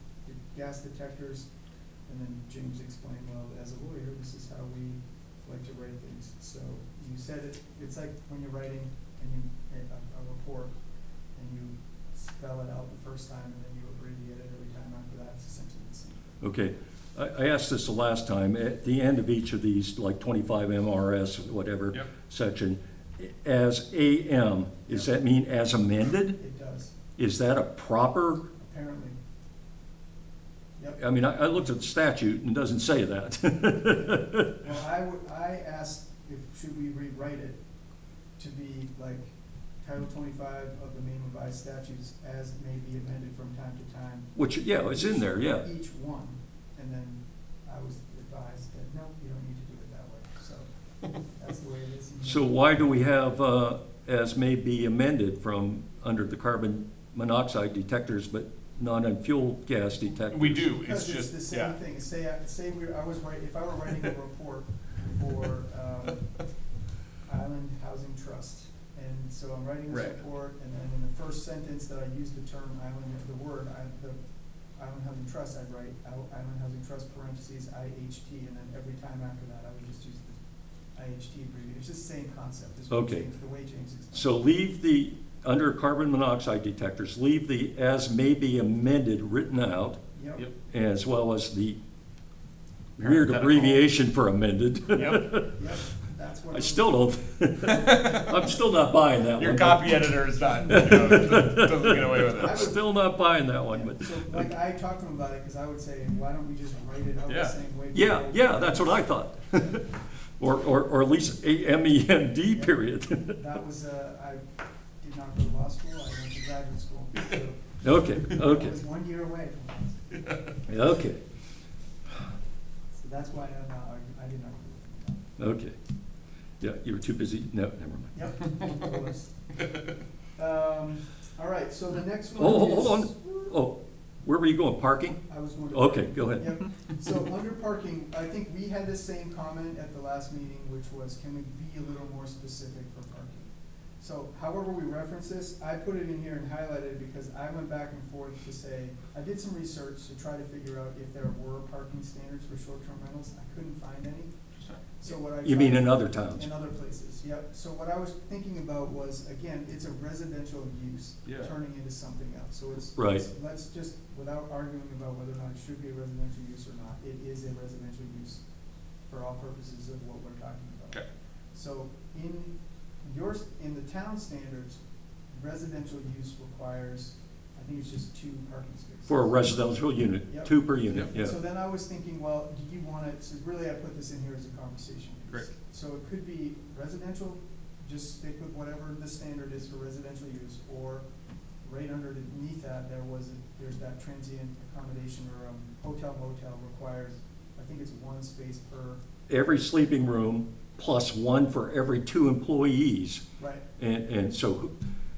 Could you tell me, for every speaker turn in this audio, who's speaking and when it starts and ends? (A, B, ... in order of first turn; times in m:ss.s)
0:00.2-0:01.5 A
0:02.1-0:10.7 A
0:11.3-0:16.4 A
0:16.4-0:26.4 B
0:26.4-0:26.9 A
0:27.2-0:28.4 B
0:28.6-0:29.2 A
0:31.0-0:34.5 B
0:34.1-0:37.6 A
0:38.4-0:39.3 A
0:39.8-0:44.3 A
0:44.3-0:45.6 B
0:44.9-0:52.5 A
0:52.2-1:00.7 B
1:00.3-1:01.7 C
1:00.8-1:06.3 A
1:07.2-1:14.2 A
1:14.8-1:20.4 A
1:20.9-1:24.4 A
1:22.9-1:23.2 B
1:24.1-1:30.0 B
1:30.1-1:30.5 A
1:30.7-1:31.8 B
1:33.0-1:35.5 B
1:33.0-1:33.8 C
1:34.9-1:35.2 C
1:35.0-1:37.0 A
1:36.5-1:40.1 B
1:37.8-1:38.2 A
1:39.4-1:42.7 C
1:40.7-1:44.5 B
1:42.3-1:42.8 A
1:43.7-1:49.8 A
1:47.3-1:47.5 C
1:47.9-1:53.4 B
1:52.5-1:54.4 A
1:55.0-2:00.4 A
1:57.8-1:58.8 B
2:00.7-2:01.2 B
2:02.9-2:05.3 A
2:05.4-2:05.7 B
2:06.6-2:08.1 B
2:08.1-2:09.3 A
2:10.4-2:13.3 A
2:12.4-2:16.5 B
2:15.3-2:34.3 A
2:35.0-2:48.4 A
2:35.4-2:36.5 B
2:43.0-2:43.2 B
2:49.1-2:51.0 A
2:51.5-2:59.5 A
2:59.1-3:01.3 B
3:00.2-3:11.0 A
3:11.6-3:19.0 A
3:19.3-3:23.2 B
3:23.4-3:23.6 A
3:23.8-3:24.7 B